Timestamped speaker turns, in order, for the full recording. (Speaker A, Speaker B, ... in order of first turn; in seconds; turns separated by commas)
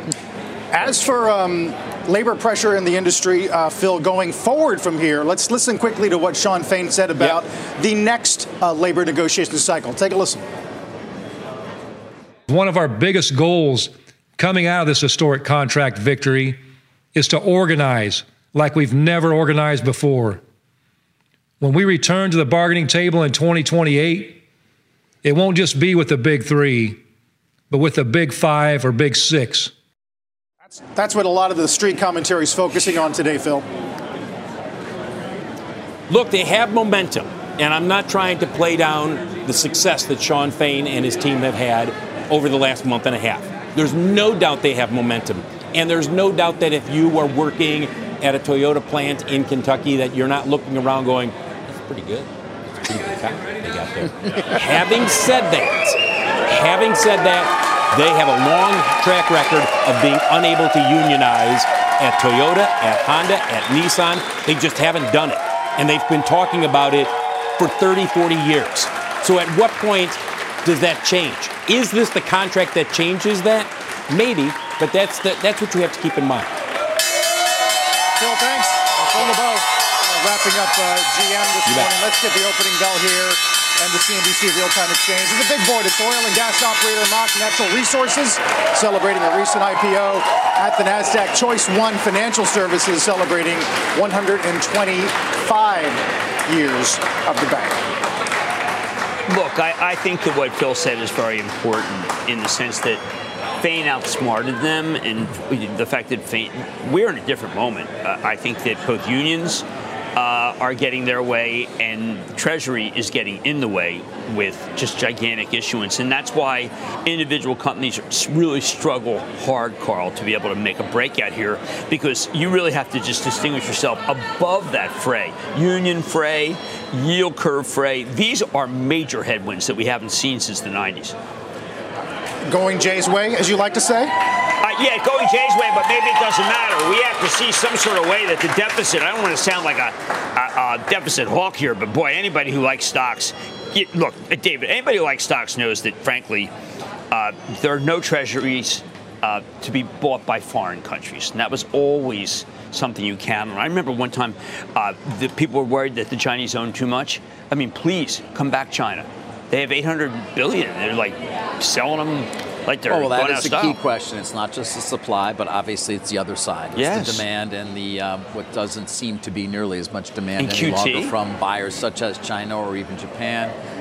Speaker A: 0.7-10.4, Speaker B: 12.5-16.6, Speaker B: 17.1-20.4, Speaker B: 21.6-24.4, Speaker B: 25.2-27.0, Speaker B: 27.7-29.7, Speaker A: 30.9-33.7, Speaker C: 36.1-76.6, Speaker A: 78.2-97.8, Speaker D: 99.3-103.0, Speaker D: 103.6-109.7, Speaker D: 110.2-131.2, Speaker A: 132.5-134.1, Speaker D: 134.6-146.5, Speaker D: 147.1-163.8, Speaker E: 162.9-173.6, Speaker D: 166.8-167.2, Speaker D: 170.4-171.1